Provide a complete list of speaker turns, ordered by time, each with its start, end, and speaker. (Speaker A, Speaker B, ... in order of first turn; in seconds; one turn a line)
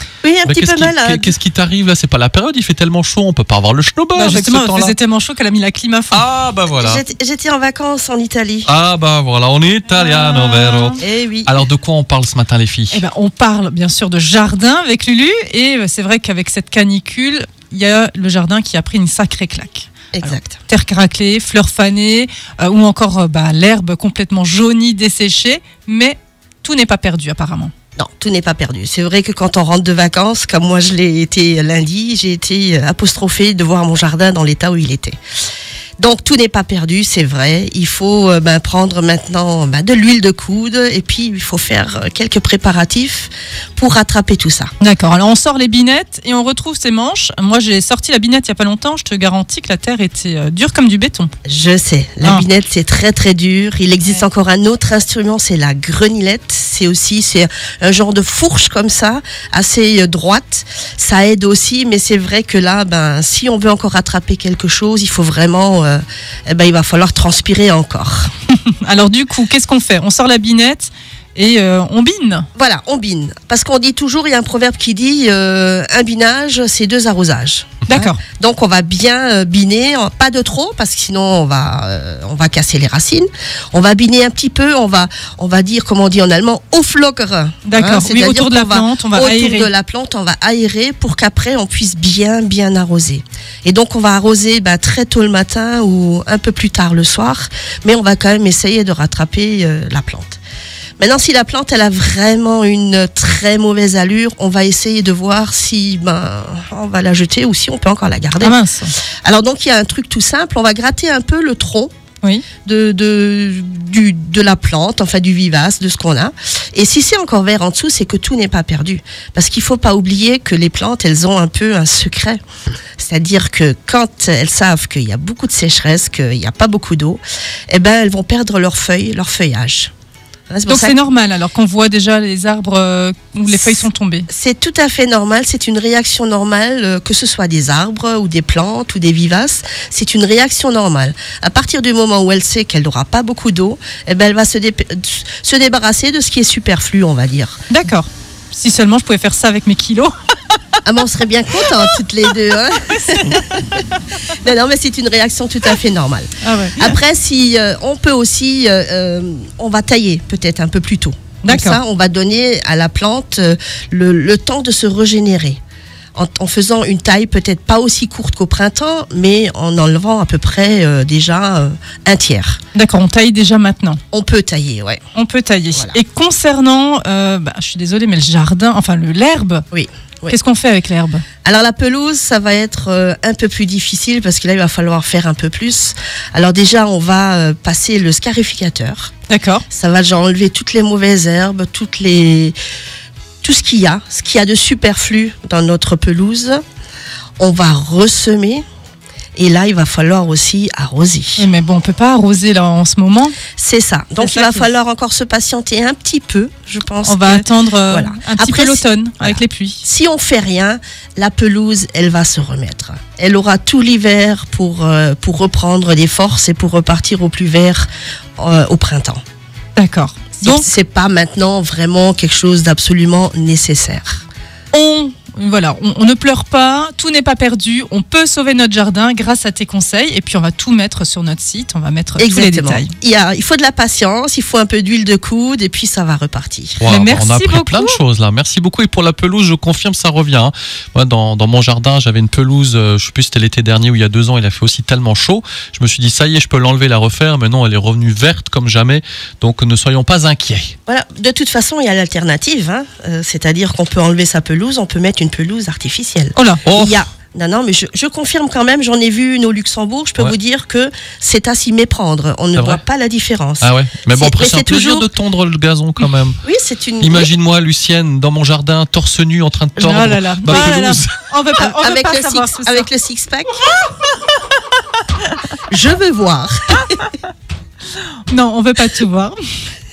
Speaker A: 0.2-1.3
Speaker B: 0.5-4.9
Speaker C: 4.1-6.2
Speaker B: 6.1-7.0
Speaker A: 6.7-8.7
Speaker B: 8.7-13.0
Speaker C: 9.9-11.0
Speaker A: 11.0-11.5
Speaker C: 12.9-27.7
Speaker A: 20.1-20.6
Speaker A: 27.9-35.2
Speaker A: 36.0-44.7
Speaker C: 44.8-51.3
Speaker A: 51.5-68.3
Speaker C: 68.5-72.5
Speaker A: 72.5-100.4
Speaker C: 77.9-78.2
Speaker C: 87.6-89.7
Speaker A: 101.0-108.6
Speaker C: 108.4-108.9
Speaker A: 109.2-111.9
Speaker A: 112.6-122.4
Speaker A: 123.0-129.9
Speaker A: 130.5-130.9
Speaker C: 130.7-134.3
Speaker A: 134.3-147.6
Speaker C: 147.7-150.1
Speaker A: 150.8-165.6
Speaker C: 156.4-157.0
Speaker C: 161.4-161.8
Speaker A: 166.1-172.6
Speaker C: 172.7-174.0
Speaker A: 174.1-175.0
Speaker C: 175.1-179.6
Speaker A: 179.7-180.3
Speaker C: 180.3-181.2
Speaker A: 181.4-189.1
Speaker C: 189.3-189.7
Speaker A: 189.7-192.6
Speaker A: 193.4-196.6
Speaker A: 197.4-198.6
Speaker A: 199.3-201.4
Speaker C: 201.4-203.4
Speaker A: 203.6-217.9
Speaker C: 204.2-204.7
Speaker C: 207.0-209.8
Speaker A: 218.4-219.2
Speaker C: 219.8-220.7
Speaker A: 220.4-224.2
Speaker C: 224.7-232.9
Speaker A: 232.2-236.8
Speaker B: 236.8-250.7
Speaker C: 236.9-238.0
Speaker A: 250.9-265.1
Speaker C: 256.3-256.6
Speaker B: 256.6-257.0
Speaker B: 262.6-262.8
Speaker B: 263.6-266.4
Speaker A: 266.4-267.3
Speaker B: 267.0-271.1
Speaker C: 269.8-272.9
Speaker A: 271.6-273.6
Speaker A: 275.7-277.1
Speaker C: 278.3-279.4